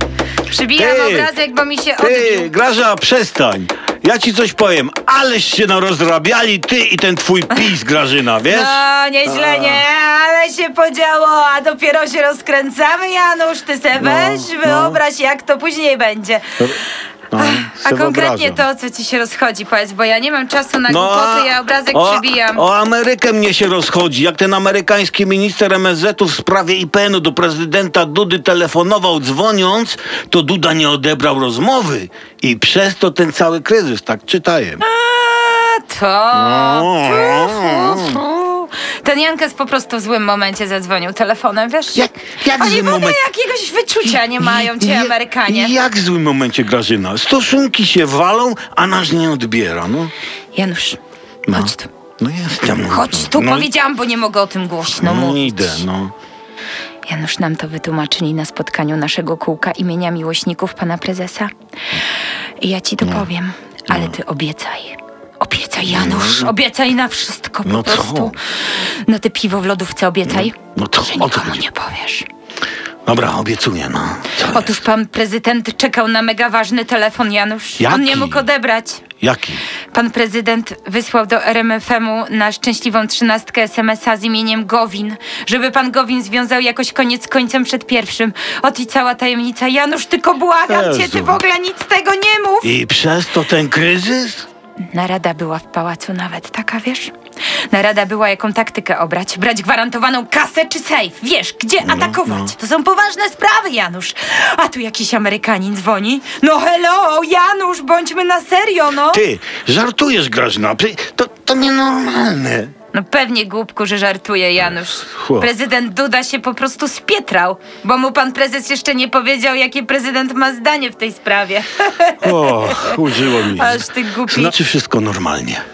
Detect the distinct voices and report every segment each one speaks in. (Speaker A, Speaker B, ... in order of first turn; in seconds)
Speaker A: 0.5-2.5, 8.5-16.6, 17.4-22.6, 34.8-45.7, 50.5-51.9, 52.9-55.8, 57.1-61.5, 62.6-72.3, 74.5-79.0, 79.9-92.7, 94.9-97.1, 97.7-109.2, 112.9-124.5
Speaker B: 0.8-1.3, 2.0-9.8, 14.0-15.0, 17.3-18.6, 20.9-34.8, 36.3-38.2, 42.0-43.2, 44.1-50.1, 51.5-53.7, 54.9-56.1, 63.0-63.3, 63.9-64.2, 65.8-66.5, 67.7-68.4, 70.3-71.7, 73.0-74.8, 77.8-78.5, 79.2-79.6, 90.7-91.4, 92.6-94.5, 101.8-102.5, 109.1-112.7, 115.0-115.5, 122.2-125.6